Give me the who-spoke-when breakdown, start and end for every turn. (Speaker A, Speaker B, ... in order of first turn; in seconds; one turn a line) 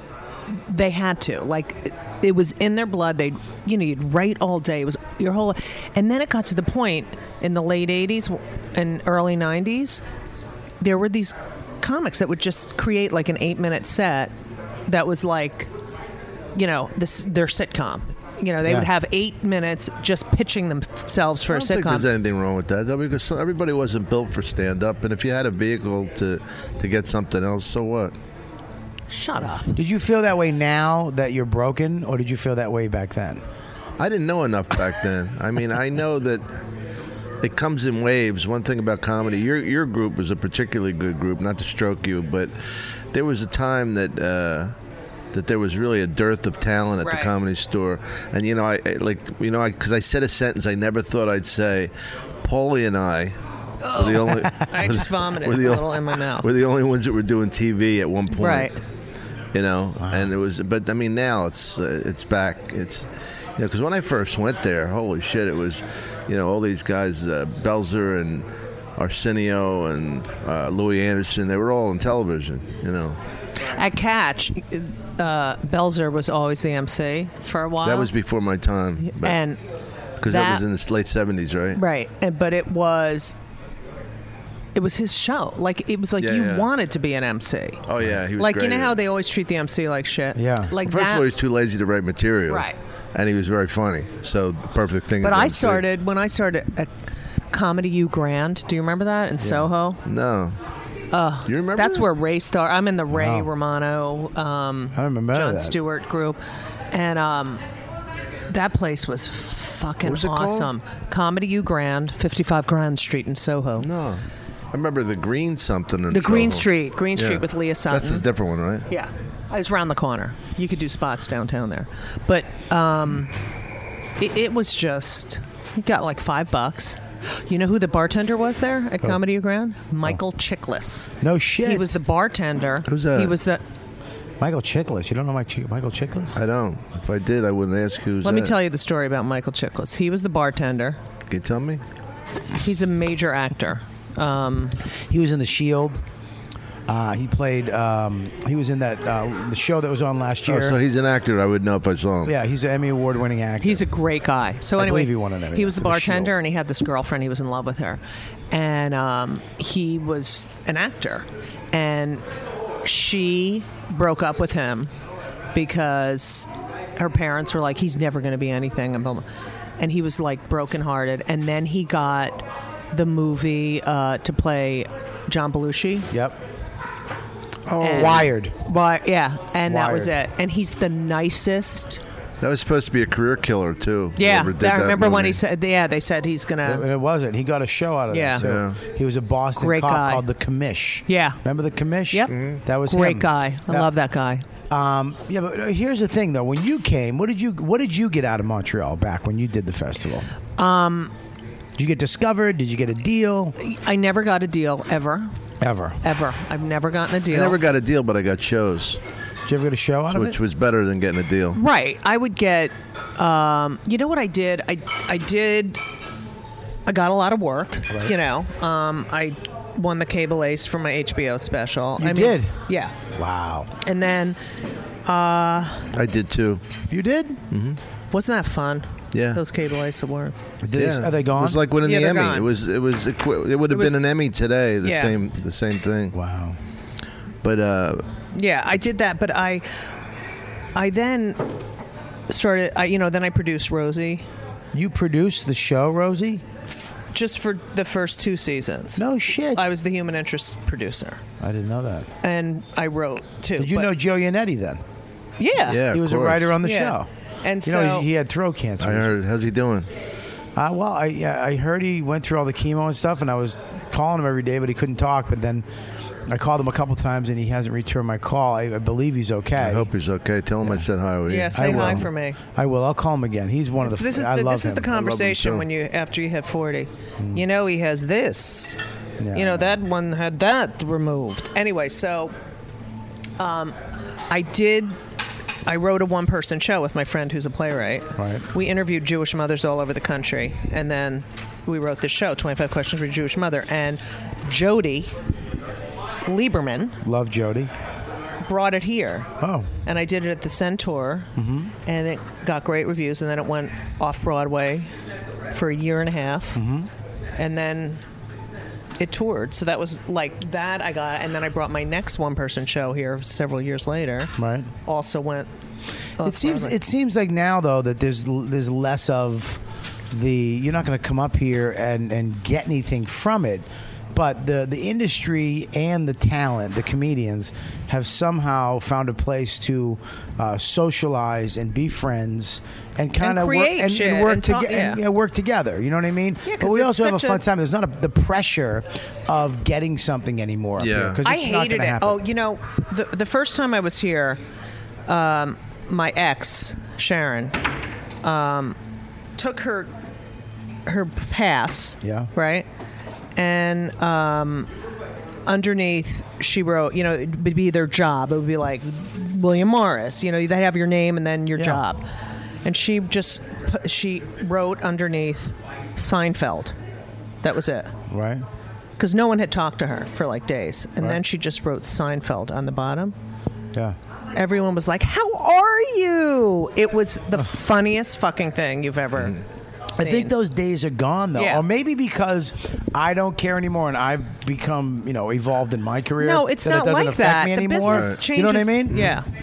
Speaker A: 0.7-10.0
Speaker A: 10.8-14.3
Speaker A: 14.9-15.7
Speaker A: 16.6-22.1
Speaker B: 18.6-18.9
Speaker C: 21.5-28.1
Speaker A: 29.1-29.8
Speaker B: 29.8-33.4
Speaker C: 34.0-36.5
Speaker C: 37.4-42.5
Speaker C: 43.1-44.7
Speaker C: 45.3-51.9
Speaker A: 47.0-47.3
Speaker C: 52.4-53.4
Speaker A: 53.8-56.5
Speaker C: 53.9-58.7
Speaker A: 58.4-58.8
Speaker C: 59.5-68.5
Speaker B: 60.0-60.3
Speaker C: 69.0-73.2
Speaker A: 73.6-78.1
Speaker C: 77.8-79.4
Speaker A: 79.0-79.6
Speaker C: 80.2-81.8
Speaker A: 80.2-80.6
Speaker A: 81.8-83.3
Speaker A: 84.8-87.8
Speaker C: 86.2-86.7
Speaker C: 87.9-89.0
Speaker A: 88.4-91.3
Speaker B: 90.3-90.7
Speaker C: 90.8-95.8
Speaker A: 92.5-92.8
Speaker A: 95.2-96.9
Speaker A: 97.5-100.0
Speaker C: 100.0-100.6
Speaker A: 101.1-106.4
Speaker C: 101.5-102.1
Speaker B: 103.1-103.5
Speaker B: 104.9-105.8
Speaker A: 106.9-107.6
Speaker A: 108.5-113.9
Speaker C: 110.0-110.7
Speaker C: 113.8-118.9
Speaker A: 116.1-118.3
Speaker A: 118.9-123.3
Speaker A: 124.2-131.1
Speaker B: 131.2-132.0
Speaker A: 131.6-133.6
Speaker C: 132.9-133.4
Speaker B: 134.4-136.4
Speaker C: 136.3-138.6
Speaker A: 138.2-141.0
Speaker C: 141.3-141.8
Speaker A: 142.6-144.8
Speaker B: 145.1-146.0
Speaker B: 146.9-150.8
Speaker C: 150.5-152.3
Speaker B: 152.2-153.9
Speaker A: 153.6-162.2
Speaker B: 154.8-156.3
Speaker A: 162.8-164.9
Speaker A: 165.5-169.2
Speaker A: 169.8-176.1
Speaker B: 176.1-176.4
Speaker C: 177.7-178.3
Speaker A: 177.8-182.0
Speaker B: 177.8-178.6
Speaker B: 179.7-180.1
Speaker C: 182.4-185.4
Speaker A: 184.2-186.8
Speaker B: 186.6-193.9
Speaker A: 188.1-188.4
Speaker C: 188.4-188.8
Speaker A: 189.6-190.3
Speaker A: 191.1-191.4
Speaker C: 192.3-192.6
Speaker A: 192.8-194.4
Speaker B: 194.7-200.3
Speaker A: 200.6-201.1
Speaker B: 201.8-203.6
Speaker A: 203.6-205.3
Speaker B: 205.6-206.0
Speaker A: 206.0-207.6
Speaker C: 207.3-209.0
Speaker B: 209.5-210.4
Speaker C: 210.1-211.6
Speaker A: 211.5-215.8
Speaker A: 216.9-222.9
Speaker B: 222.0-222.6
Speaker B: 223.1-223.7
Speaker A: 223.8-224.4
Speaker A: 225.1-225.9
Speaker C: 225.9-226.6
Speaker B: 226.9-227.4
Speaker C: 227.5-227.8
Speaker A: 228.1-230.4
Speaker C: 229.1-229.4
Speaker B: 230.6-231.6
Speaker C: 230.8-236.2
Speaker A: 231.8-232.5
Speaker A: 233.7-234.0
Speaker A: 234.8-235.2
Speaker B: 236.1-236.6
Speaker C: 237.4-238.1
Speaker A: 238.3-239.7
Speaker A: 240.8-241.5
Speaker A: 242.3-244.2
Speaker B: 244.7-246.4
Speaker A: 247.1-251.2
Speaker B: 249.0-249.8
Speaker B: 251.4-252.1
Speaker A: 252.2-253.9
Speaker B: 253.6-254.8
Speaker A: 255.4-255.8
Speaker C: 255.7-256.6
Speaker B: 255.8-257.1
Speaker A: 256.6-258.1
Speaker B: 257.6-259.1
Speaker C: 258.8-259.9
Speaker B: 260.6-265.6
Speaker B: 266.3-269.9
Speaker C: 269.6-272.1
Speaker A: 271.3-272.4
Speaker B: 271.5-274.9
Speaker A: 273.8-278.8
Speaker C: 274.9-275.7
Speaker B: 277.2-277.4
Speaker B: 279.2-279.7
Speaker A: 279.3-282.3
Speaker A: 283.4-283.8
Speaker A: 284.3-285.0
Speaker A: 285.7-295.1
Speaker B: 288.2-288.5
Speaker A: 296.3-297.0
Speaker B: 297.0-297.7
Speaker A: 298.4-299.3
Speaker B: 299.4-299.7
Speaker A: 299.9-301.3
Speaker B: 301.4-301.7
Speaker A: 301.9-304.9
Speaker A: 305.5-306.6
Speaker B: 306.5-306.9
Speaker A: 307.4-308.0
Speaker A: 309.0-314.3
Speaker B: 314.4-314.7
Speaker A: 314.9-315.5
Speaker A: 316.2-316.8
Speaker B: 316.2-342.2
Speaker A: 333.2-335.0
Speaker A: 336.4-337.4
Speaker C: 340.8-341.2
Speaker A: 341.2-344.4
Speaker A: 345.1-347.6
Speaker A: 348.2-348.8
Speaker A: 349.4-349.9
Speaker A: 350.9-352.7
Speaker B: 352.0-352.3
Speaker A: 353.4-354.7
Speaker A: 355.5-362.0
Speaker B: 361.6-361.8
Speaker A: 362.6-366.8
Speaker A: 367.4-367.9
Speaker B: 368.1-368.5
Speaker A: 369.0-373.1
Speaker A: 374.4-379.4
Speaker A: 380.0-380.3
Speaker B: 380.0-389.2
Speaker A: 381.4-381.6
Speaker A: 386.2-389.3
Speaker C: 387.8-388.2